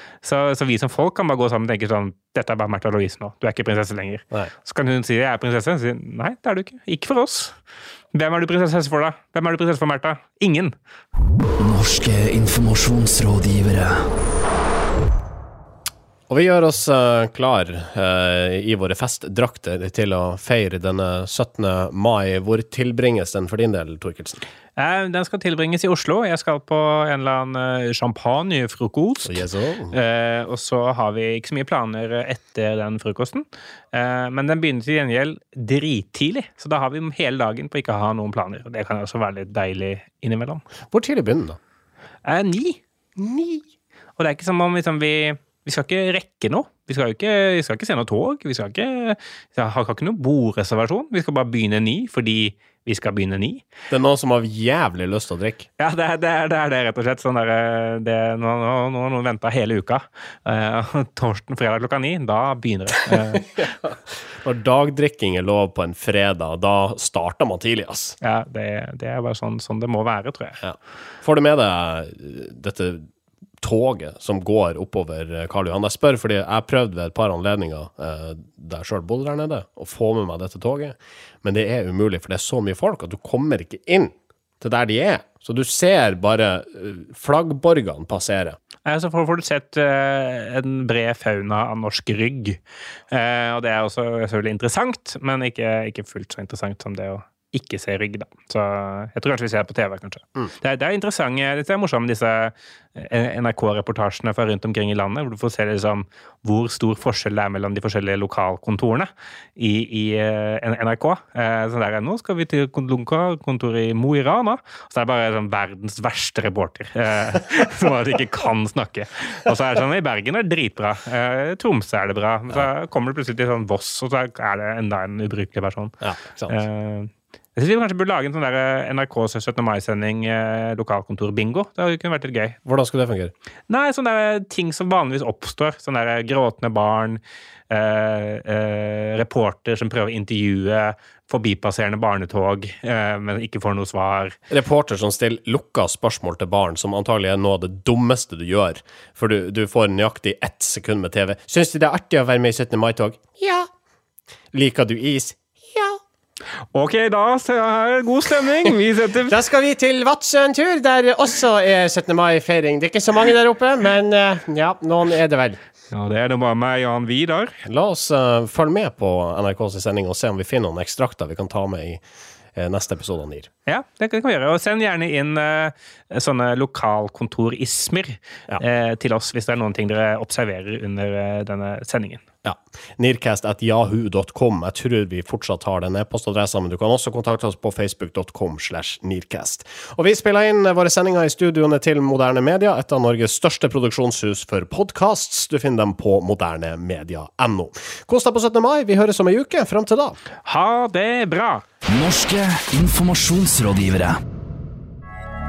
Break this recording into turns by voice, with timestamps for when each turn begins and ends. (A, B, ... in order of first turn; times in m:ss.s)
0:00.2-0:07.6 A
0:08.1-0:10.7 A
0:11.6-0:14.1 B
0:16.3-0:24.4 C
0:24.8-0:40.6 A
0:29.3-0:30.0 C
0:40.9-0:41.6 C
0:42.2-0:43.6 A
0:44.2-0:53.6 A
0:53.9-0:55.7 C
0:55.8-1:03.7 A
1:03.3-1:08.2 C
1:08.2-1:10.6 A
1:10.6-1:13.1 C
1:13.6-1:28.6 C
1:28.8-1:32.6 A
1:33.1-2:06.0 A
2:06.0-2:06.6 C
2:06.5-2:12.6 A
2:12.7-2:13.3 C
2:13.7-2:24.4 A
2:24.5-2:33.7 C
2:34.5-2:36.0 C
2:36.7-2:39.4 A
2:39.3-2:45.6 C
2:45.9-2:47.6 A
2:47.6-2:52.0 C
2:52.6-2:53.5 C
2:53.7-3:02.2 A
3:02.4-3:20.2 C
3:20.5-3:21.6 A
3:21.9-3:24.2 B